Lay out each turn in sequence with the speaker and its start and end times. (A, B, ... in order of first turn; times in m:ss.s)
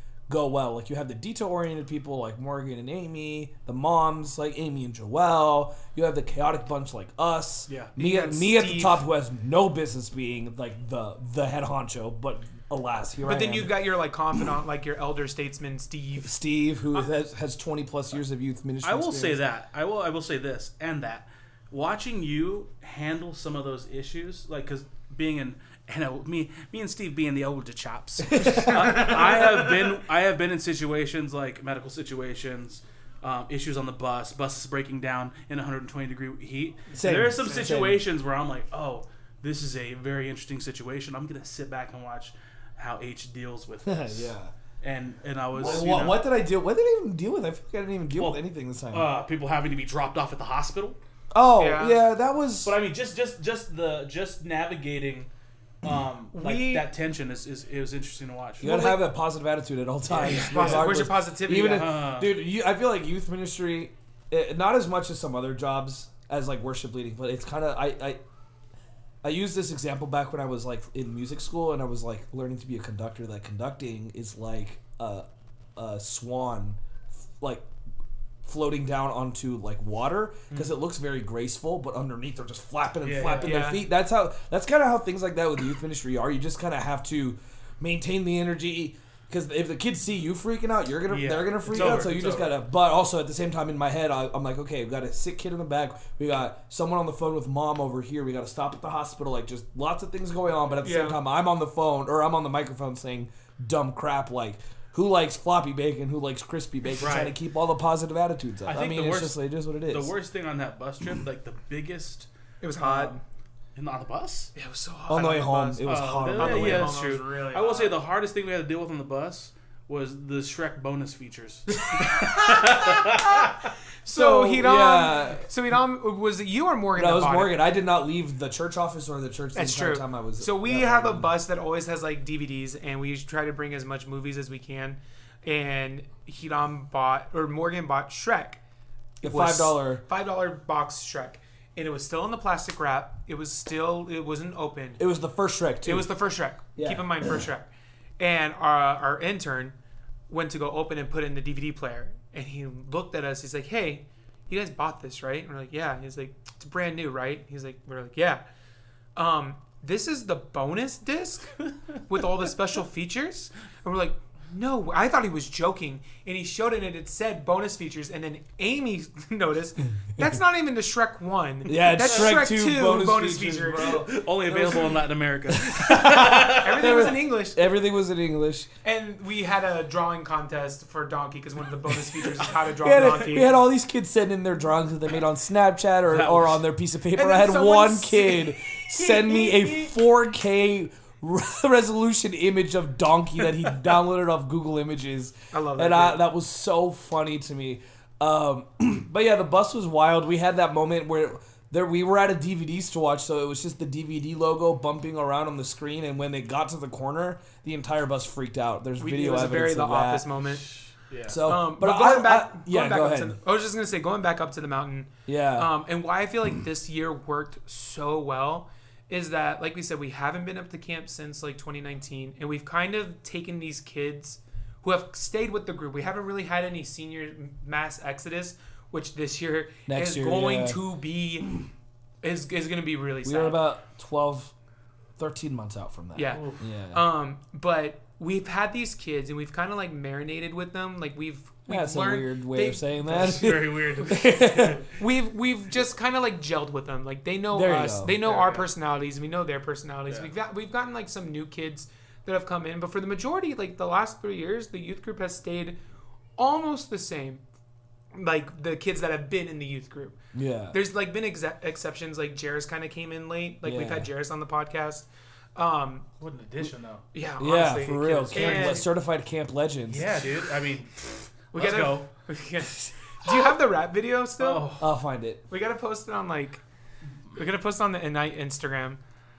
0:00.3-0:13.8 A
0:07.7-0:07.9 B
0:08.0-0:09.0 C
0:13.2-0:16.4 C
0:16.2-0:19.4 A
0:18.8-0:46.3 B
0:28.3-0:29.8 A
0:36.9-0:38.0 A
0:43.8-0:44.5 A
0:45.5-0:49.1 A
0:48.2-0:51.0 B
0:51.3-0:52.8 A
0:51.6-0:52.0 C
0:52.6-0:55.3 B
0:55.8-0:58.9 B
0:56.3-0:56.9 C
0:58.6-1:08.2 A
0:58.6-0:59.0 C
1:00.1-1:00.9 B
1:00.2-1:01.9 C
1:01.7-1:02.3 B
1:09.2-1:16.8 A
1:17.4-1:17.6 A
1:18.4-1:50.1 A
1:20.5-1:20.8 B
1:23.0-1:23.6 B
1:23.4-1:23.8 C
1:31.1-1:32.5 B
1:31.7-1:32.1 C
1:40.8-1:41.2 C
1:47.0-1:47.3 B
1:48.7-1:53.2 B
1:52.6-1:53.2 C
1:53.7-1:54.5 B
1:54.5-1:58.0 C
1:55.1-1:57.0 A
1:55.8-2:03.6 B
2:02.1-2:03.0 C
2:04.0-2:07.6 C
2:04.0-2:05.5 A
2:06.9-2:11.3 A
2:09.5-2:18.6 C
2:19.2-2:20.0 A
2:19.2-2:25.0 C
2:25.0-2:26.1 A
2:25.8-2:27.7 C
2:26.8-2:27.4 A
2:28.2-2:29.7 C
2:30.3-2:38.4 C
2:39.2-2:54.9 C
2:51.6-2:54.6 A
2:52.1-2:52.3 B
2:53.7-2:57.1 B
2:55.6-2:58.7 A
2:56.4-2:57.6 C
2:58.8-3:03.5 C
3:02.6-3:30.3 A
3:06.1-3:06.6 B
3:07.1-3:09.9 C
3:15.5-3:16.3 C
3:29.0-3:30.7 C
3:30.6-3:31.4 B
3:31.3-3:33.4 A
3:31.4-3:51.5 C
3:35.2-3:35.7 A
3:49.9-3:50.8 A
3:52.2-3:53.6 C
3:53.2-3:54.5 A
3:55.2-3:57.0 A
3:56.1-4:03.5 C
3:56.3-3:56.6 B
4:01.7-4:04.8 A
4:03.1-4:04.9 B
4:05.0-4:15.8 C
4:07.5-4:08.2 A
4:08.2-4:08.7 B
4:10.1-4:10.3 B
4:16.4-4:17.4 C
4:18.1-4:20.2 C
4:20.3-4:20.8 A
4:20.7-4:26.0 C
4:23.6-4:24.1 A
4:26.2-4:27.0 B
4:27.1-4:28.8 C
4:27.4-4:30.2 A
4:28.0-4:28.9 B
4:29.9-4:32.1 B
4:31.5-4:34.7 C
4:34.4-4:34.9 B
4:34.8-4:35.4 A
4:35.5-4:36.6 C
4:37.3-4:39.0 C